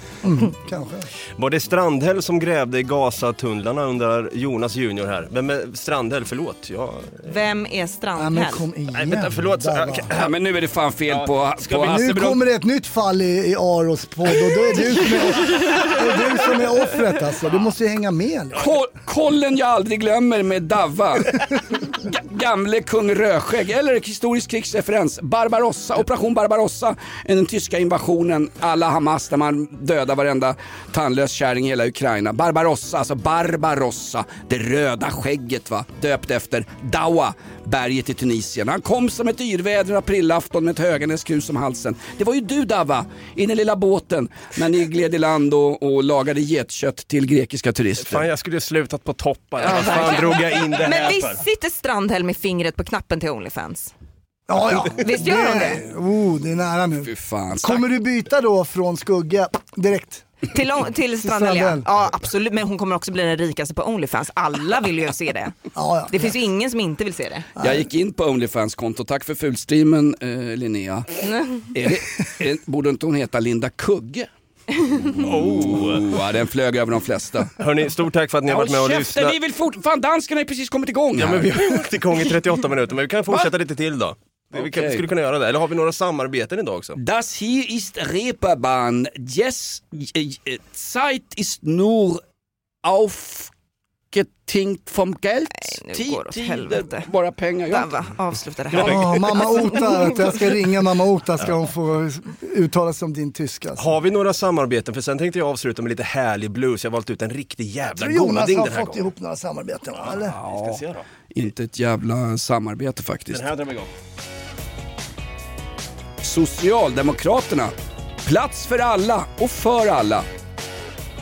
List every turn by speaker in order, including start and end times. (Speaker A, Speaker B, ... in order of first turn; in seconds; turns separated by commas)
Speaker A: 0.2-1.1, Speaker B: 1.4-7.3, Speaker C: 7.2-8.6, Speaker A: 8.2-10.1, Speaker B: 8.9-10.3, Speaker D: 10.1-12.4, Speaker B: 11.1-12.0, Speaker A: 11.8-18.6, Speaker D: 18.6-21.4, Speaker D: 22.0-48.2, Speaker B: 48.0-51.4, Speaker C: 49.6-53.9, Speaker A: 54.5-60.3, Speaker C: 54.7-55.8, Speaker D: 57.0-57.8, Speaker C: 60.5-65.5, Speaker A: 61.2-61.9, Speaker A: 65.7-66.3, Speaker C: 66.1-67.5, Speaker A: 67.6-67.9, Speaker D: 67.6-74.3, Speaker D: 74.9-77.5, Speaker B: 75.2-76.2, Speaker B: 77.6-79.3, Speaker D: 78.5-81.8, Speaker B: 81.2-87.0, Speaker D: 84.5-85.0, Speaker D: 87.0-92.2, Speaker D: 92.8-93.5, Speaker D: 94.1-98.0, Speaker C: 95.7-97.1, Speaker C: 97.7-100.3, Speaker B: 98.7-99.1, Speaker D: 98.7-99.6, Speaker A: 98.8-103.9, Speaker B: 103.8-109.0, Speaker A: 107.9-110.3, Speaker B: 110.1-111.0, Speaker D: 110.2-113.5, Speaker B: 113.3-113.9, Speaker D: 116.2-117.7, Speaker D: 118.2-120.2